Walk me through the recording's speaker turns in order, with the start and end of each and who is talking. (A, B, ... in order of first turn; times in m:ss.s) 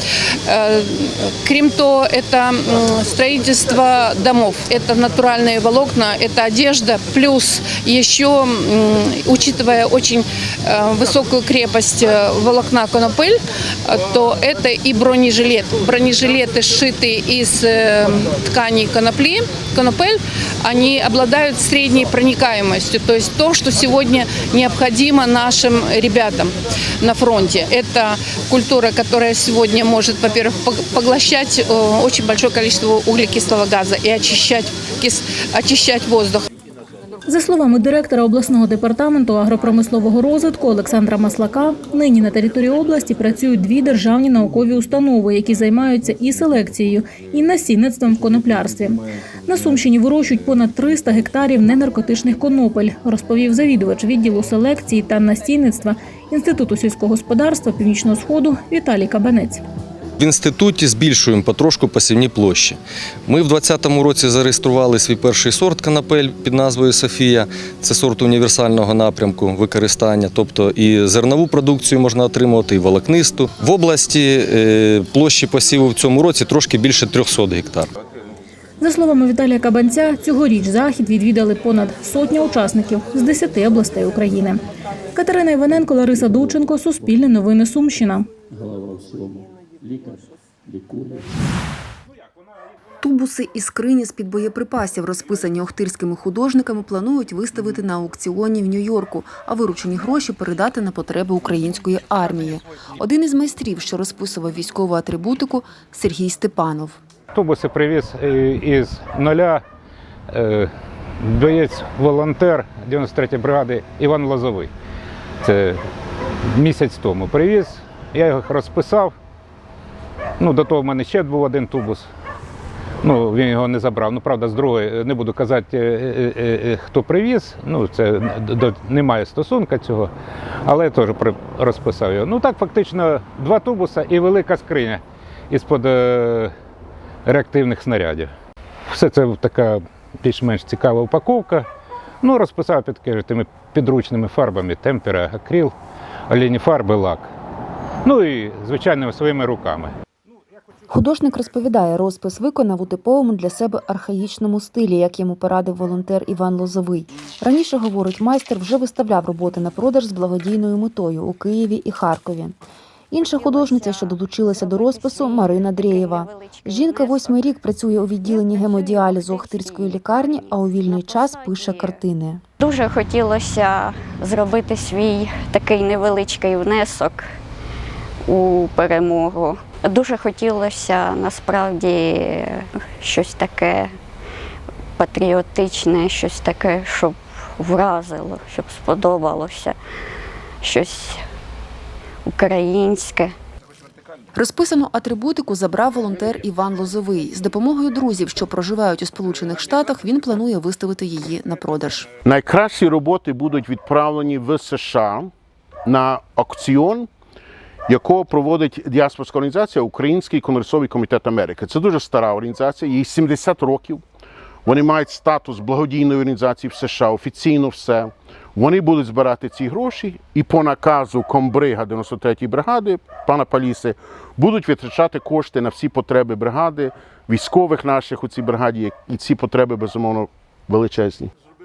0:00.5-0:36.4 A
0:37.3-0:59.6 B
1:00.2-1:17.9 C
1:18.8-1:24.6 B
1:25.1-1:28.3 B
1:33.0-1:47.0 D
1:47.3-1:49.6 E
1:50.3-1:50.7 E
1:51.2-1:54.7 E
1:55.4-1:55.8 E
1:56.6-1:59.1 E
2:00.4-2:02.1 E
2:03.0-2:10.1 E
2:10.7-2:16.5 E
2:17.3-2:18.3 E
2:18.9-2:21.7 E
2:22.2-2:25.8 E
2:26.3-2:27.3 E
2:28.0-2:29.9 E
2:30.9-2:42.6 D
2:43.1-2:52.4 D
2:43.3-2:47.5 F
2:48.2-2:52.0 F
2:52.6-2:57.3 F
2:58.3-3:03.9 F
3:05.0-3:09.8 F
3:10.6-3:11.2 F
3:12.3-3:13.4 F
3:14.4-3:22.1 D
3:22.2-3:25.3 G
3:25.9-3:27.1 G
3:27.9-3:34.0 G
3:34.7-3:51.3 G